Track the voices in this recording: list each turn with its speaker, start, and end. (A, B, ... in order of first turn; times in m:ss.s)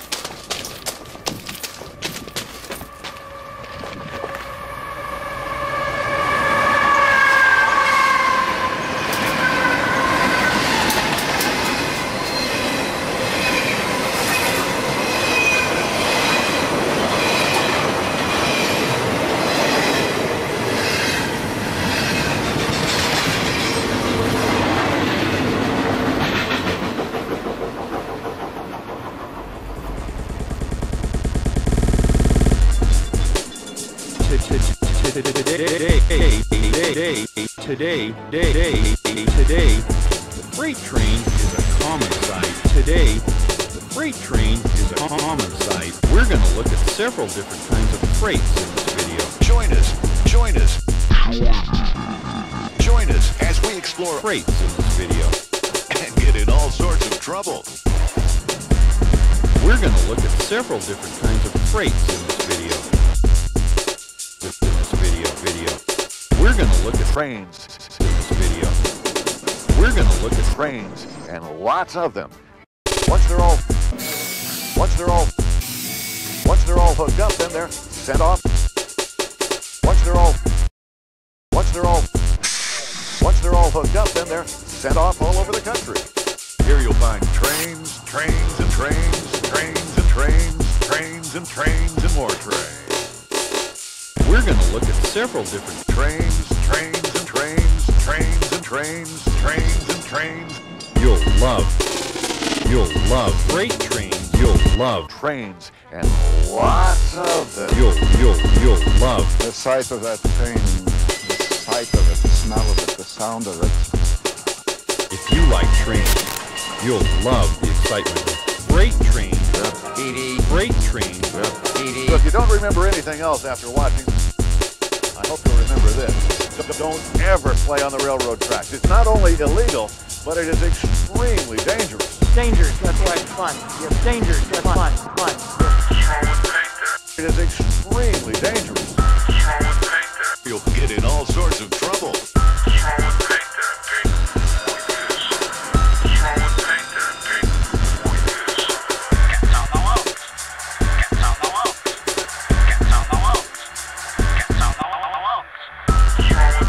0:34.2-0:49.4 A
0:49.4-0:50.8 B
0:52.8-0:54.3 B
0:54.2-0:55.4 A
0:55.9-0:57.7 B
0:59.6-1:02.9 A
1:04.4-1:05.8 A
1:06.3-1:07.2 A
1:07.1-1:08.0 B
1:07.9-1:08.8 A
1:09.7-1:10.6 A
1:10.5-1:12.4 B
1:13.0-1:13.6 B
1:14.7-1:15.3 B
1:16.4-1:18.4 B
1:19.8-1:20.4 B
1:21.5-1:22.1 B
1:23.2-1:26.1 B
1:26.6-1:32.9 B
1:34.2-1:35.8 A
1:35.9-1:40.6 B
1:41.0-1:41.8 A
1:42.6-1:45.1 A
1:45.1-1:47.8 B
1:47.7-1:49.4 A
1:49.4-1:54.0 C
1:55.1-1:59.8 A
2:00.3-2:01.6 A
2:02.0-2:04.2 B
2:05.1-2:12.2 B
2:12.3-2:15.9 D
2:17.2-2:19.0 B
2:19.7-2:22.2 B